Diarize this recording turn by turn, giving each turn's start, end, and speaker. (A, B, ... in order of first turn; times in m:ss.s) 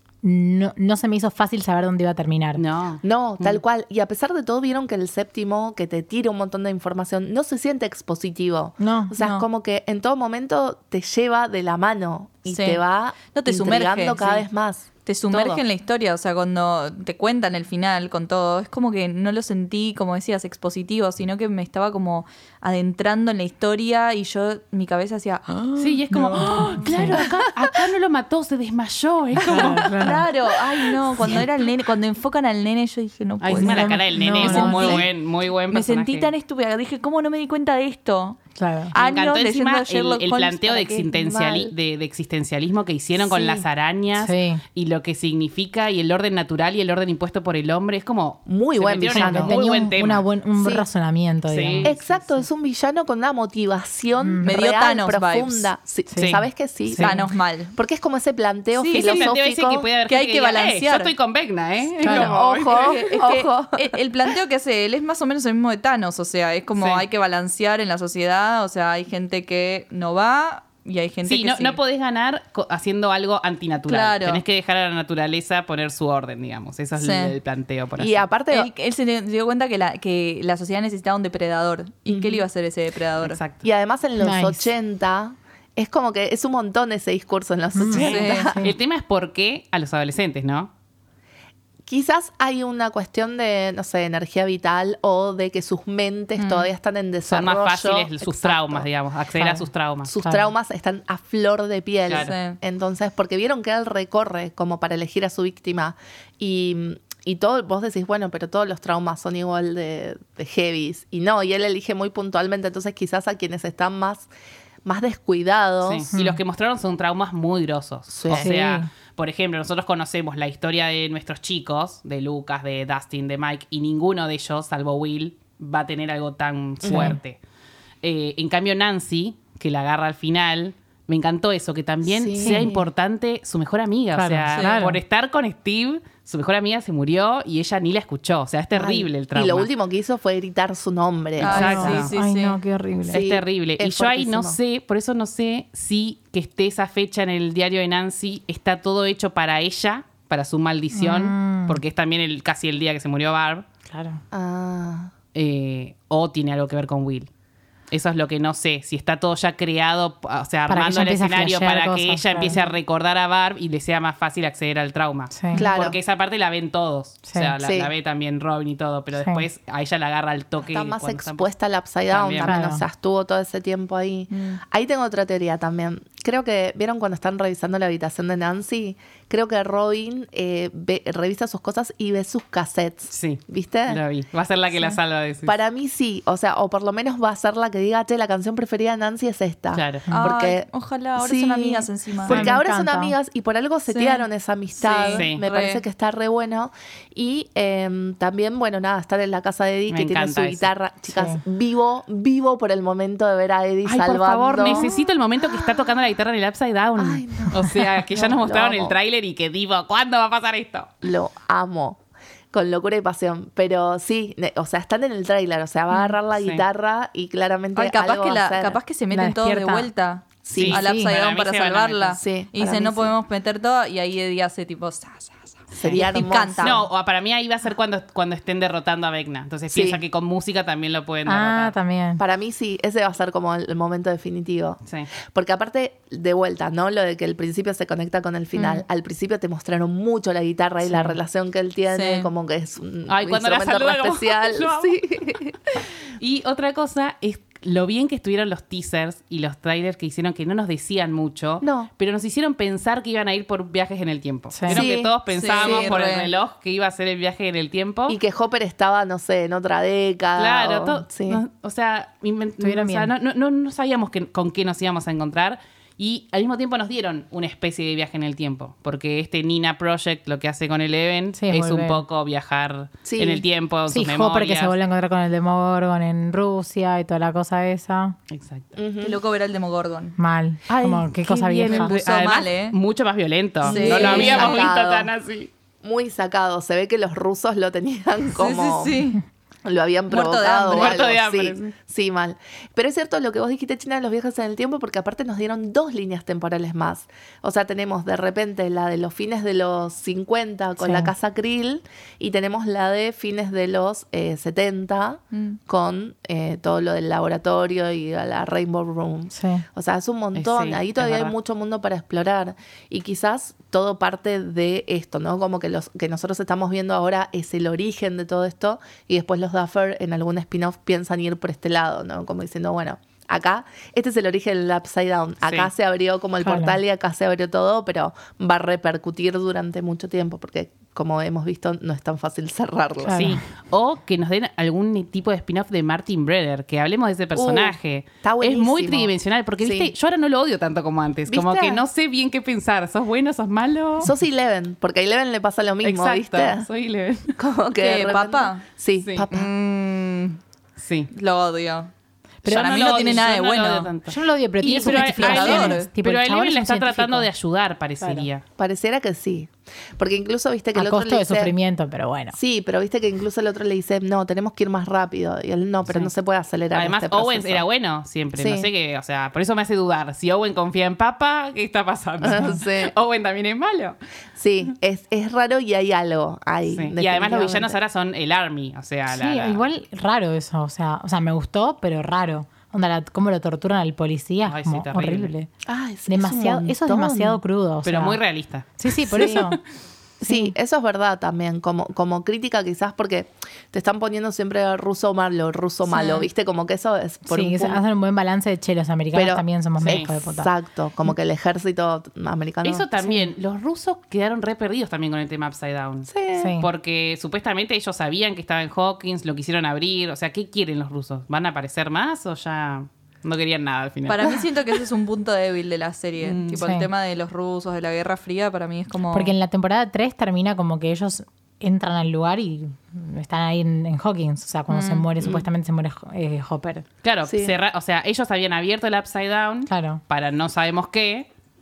0:00.2-0:02.6 A
0:02.6-0:03.6 B
0:03.0-0:15.6 C
0:08.8-0:09.2 A
0:09.2-0:09.4 D
0:12.5-0:14.4 D
0:15.0-0:27.2 D
0:25.8-0:30.1 B
0:26.4-0:27.2 A
0:29.4-0:30.2 A
0:29.5-0:35.1 D
0:31.2-0:31.4 C
0:33.4-0:36.3 B
0:33.6-0:35.0 A
0:35.7-0:38.4 D
0:38.6-0:38.9 A
0:38.9-0:41.1 D
0:38.9-0:50.2 B
0:41.1-0:41.7 C
0:43.2-0:43.6 C
0:44.1-0:44.6 A
0:48.4-0:49.6 C
0:49.1-0:51.9 A
0:50.6-0:50.8 C
0:51.5-0:52.2 B
0:51.8-0:57.1 C
0:54.2-0:54.5 A
0:54.4-0:55.7 D
0:56.1-0:56.3 A
0:56.2-0:56.4 B
0:56.9-0:57.2 A
0:57.0-0:57.7 D
0:57.7-0:59.9 C
0:58.7-0:59.3 D
0:58.9-1:03.0 B
1:00.1-1:01.1 D
1:02.0-1:02.3 A
1:02.0-1:04.0 C
1:02.3-1:11.8 D
1:06.8-1:07.0 B
1:11.2-1:18.2 B
1:13.9-1:14.4 D
1:17.0-1:17.3 D
1:18.0-1:18.7 C
1:18.5-1:23.4 D
1:22.0-1:22.4 C
1:23.2-1:23.6 B
1:23.6-1:28.7 C
1:24.2-1:24.7 A
1:27.7-1:28.7 A
1:27.9-1:30.7 B
1:27.9-1:28.5 D
1:31.8-1:38.9 C
1:36.4-1:36.7 D
1:37.2-1:40.1 B
1:39.4-1:39.6 A
1:40.0-1:54.3 C
1:40.2-1:40.5 A
1:42.1-1:42.3 B
1:42.1-1:42.6 D
1:54.8-1:56.1 C
1:55.8-2:07.4 B
1:56.1-1:56.4 A
1:58.1-1:58.5 C
1:58.3-1:58.9 A
2:06.8-2:07.2 C
2:06.9-2:07.2 A
2:08.0-2:19.7 B
2:12.0-2:12.9 C
2:12.4-2:12.7 A
2:14.1-2:15.0 A
2:14.5-2:14.9 D
2:18.7-2:22.0 C
2:21.4-2:22.1 B
2:21.4-2:22.6 D
2:21.5-2:23.2 A
2:23.1-2:24.6 C
2:23.1-2:33.6 B
2:30.9-2:31.8 A
2:33.9-2:34.2 A
2:34.3-2:35.1 C
2:35.3-2:37.3 B
2:37.9-2:51.5 B
2:40.7-2:42.6 A
2:45.3-2:45.6 A
2:45.5-2:46.0 C
2:47.3-2:47.5 A
2:47.6-2:47.9 C
2:49.2-2:49.4 A
2:50.6-3:04.0 C
2:52.1-2:52.5 B
2:52.4-2:52.8 A
2:54.3-2:54.6 D
3:03.1-3:05.6 B
3:05.4-3:25.9 C
3:09.7-3:10.0 B
3:10.1-3:12.4 D
3:12.3-3:12.5 B
3:12.3-3:13.1 A
3:13.9-3:14.2 D
3:14.8-3:15.8 D
3:15.1-3:15.4 B
3:19.9-3:20.7 B
3:21.1-3:21.4 A
3:23.8-3:30.9 B
3:27.0-3:29.0 C
3:31.0-3:32.0 C
3:32.5-3:38.8 C
3:36.3-3:36.6 B
3:37.7-3:46.8 D
3:39.1-3:39.9 A
3:40.4-3:40.8 C
3:40.5-3:42.2 B
3:40.7-3:41.1 A
3:42.2-3:43.1 C
3:45.7-3:51.7 B
3:45.8-3:46.9 C
3:49.7-3:50.0 C
3:51.2-3:52.2 A
3:52.2-4:05.6 C
4:00.8-4:01.2 A
4:01.9-4:02.3 D
4:03.1-4:05.0 B
4:06.2-4:18.2 B
4:11.6-4:11.9 C
4:14.5-4:14.8 A
4:14.7-4:15.9 C
4:15.3-4:16.3 D
4:18.1-4:21.4 C
4:20.4-4:34.7 B
4:22.6-4:23.1 A
4:31.4-4:32.0 A
4:33.0-4:33.4 C
4:33.9-4:38.2 A
4:38.3-4:38.6 B
4:38.7-4:39.2 C
4:39.0-4:40.2 D
4:40.2-4:41.9 A
4:40.7-4:45.5 B
4:41.6-4:42.8 D
4:43.6-4:45.1 C
4:43.6-4:44.6 D
4:45.8-4:49.0 C
4:48.3-4:49.2 D
4:49.6-5:33.3 C
4:50.1-4:51.0 D
4:50.7-4:51.7 B
5:00.8-5:01.1 A
5:05.3-5:05.6 D
5:09.3-5:09.6 A
5:10.3-5:11.3 B
5:25.4-5:25.7 B
5:26.4-5:26.8 A
5:33.0-5:33.4 A
5:33.1-5:44.1 B
5:37.3-5:39.9 C
5:41.3-5:41.8 C
5:44.0-5:46.7 C
5:45.8-5:47.4 B
5:47.4-5:49.5 C
5:47.8-5:48.6 D
5:49.0-5:49.2 B
5:49.3-5:50.4 D
5:50.8-5:51.1 B
5:51.1-5:51.9 D
5:52.4-5:53.9 D
5:52.4-5:53.2 A
5:52.4-5:58.4 B
5:54.1-5:57.3 A
5:54.8-5:55.9 D
5:58.0-5:58.3 A
5:58.6-6:01.5 C
6:00.7-6:02.4 A
6:02.3-6:07.6 C
6:06.7-6:14.0 B
6:08.4-6:08.7 C
6:12.2-6:12.9 C
6:12.3-6:12.5 A
6:14.4-6:17.8 C
6:16.7-6:19.6 B
6:19.1-6:25.5 A
6:24.4-6:25.3 B
6:25.6-6:27.4 C
6:26.1-6:28.2 A
6:27.8-6:29.6 B
6:28.8-6:29.6 A
6:29.1-6:29.4 C
6:30.2-6:37.8 C
6:30.2-6:30.5 A
6:37.3-6:40.5 A
6:39.1-6:42.9 C
6:39.8-6:40.1 B
6:42.6-6:54.8 B
6:43.0-6:43.3 A
6:46.1-6:46.5 C
6:46.4-6:46.7 A
6:54.1-6:59.3 D
6:56.2-6:56.6 B
6:56.5-6:56.9 A
6:59.1-7:06.8 A
7:04.7-7:05.1 D
7:05.2-7:05.5 C
7:07.0-7:11.3 B
7:07.2-7:07.6 C
7:09.7-7:10.0 A